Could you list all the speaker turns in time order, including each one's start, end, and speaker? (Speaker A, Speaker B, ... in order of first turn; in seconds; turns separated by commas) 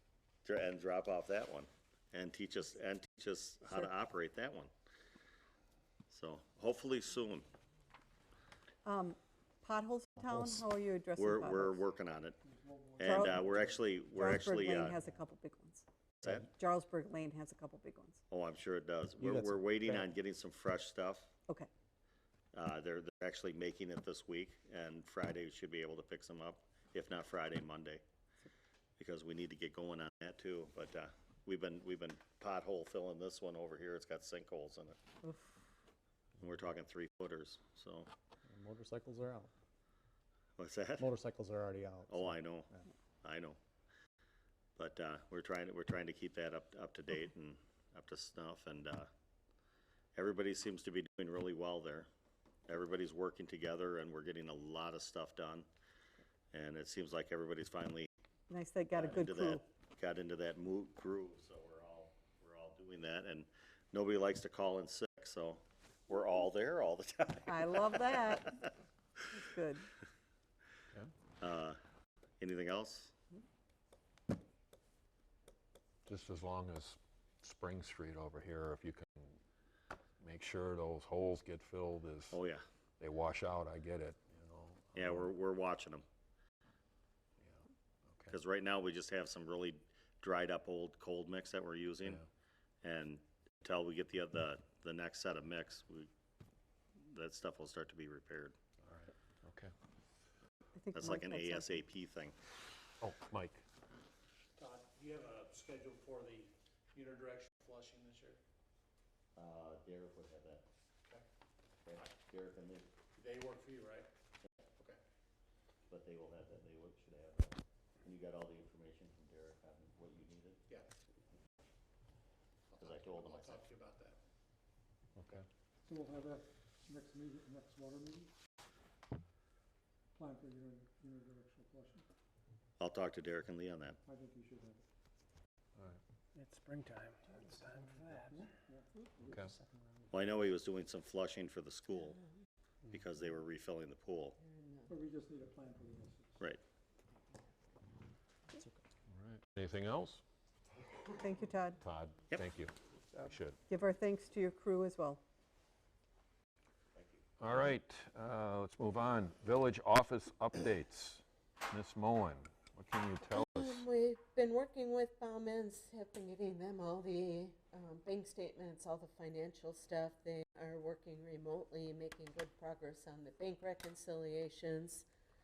Speaker A: 0.5-4.7, Speaker A: 6.1-7.5, Speaker B: 8.8-11.8, Speaker C: 10.2-10.6, Speaker A: 11.2-12.4, Speaker D: 12.4-13.8, Speaker A: 13.0-15.0, Speaker B: 13.0-13.3, Speaker B: 14.1-15.8, Speaker B: 16.4-18.2, Speaker A: 18.3-21.3, Speaker C: 19.2-20.1, Speaker A: 22.5-28.0, Speaker A: 29.0-35.0, Speaker A: 36.4-38.1, Speaker C: 38.5-39.5, Speaker A: 40.6-41.1, Speaker C: 41.0-42.9, Speaker A: 42.1-42.7, Speaker A: 43.2-43.6, Speaker A: 44.8-49.1, Speaker A: 50.1-52.1, Speaker A: 52.7-55.7, Speaker A: 56.5-58.1, Speaker B: 58.5-59.6, Speaker A: 59.0-68.7, Speaker B: 67.5-68.7, Speaker B: 69.3-69.9, Speaker A: 71.4-71.8, Speaker A: 72.4-73.1, Speaker E: 76.1-79.4, Speaker E: 80.2-82.4, Speaker A: 82.3-82.6, Speaker E: 83.0-85.3, Speaker A: 85.0-86.0, Speaker E: 87.4-88.3, Speaker A: 88.3-92.2, Speaker A: 92.8-96.1, Speaker A: 97.0-98.5, Speaker E: 98.8-99.7, Speaker B: 100.8-101.8, Speaker A: 100.9-102.3, Speaker E: 103.0-103.6, Speaker F: 104.8-106.0, Speaker F: 107.1-108.3, Speaker A: 109.4-110.7, Speaker A: 111.9-112.9, Speaker A: 115.9-120.6, Speaker A: 122.8-123.7, Speaker F: 123.2-124.1, Speaker E: 125.2-125.4, Speaker D: 125.9-128.3, Speaker D: 130.2-132.1, Speaker A: 132.8-134.0, Speaker D: 134.1-134.8, Speaker G: 136.3-138.5, Speaker D: 138.3-139.5, Speaker A: 140.1-142.2, Speaker A: 142.9-144.4, Speaker H: 144.4-144.9, Speaker D: 144.9-146.4, Speaker E: 149.1-150.2, Speaker B: 151.2-151.8, Speaker E: 151.8-153.6, Speaker B: 153.7-155.2, Speaker A: 156.9-157.2, Speaker E: 157.4-163.9, Speaker H: 163.3-175.1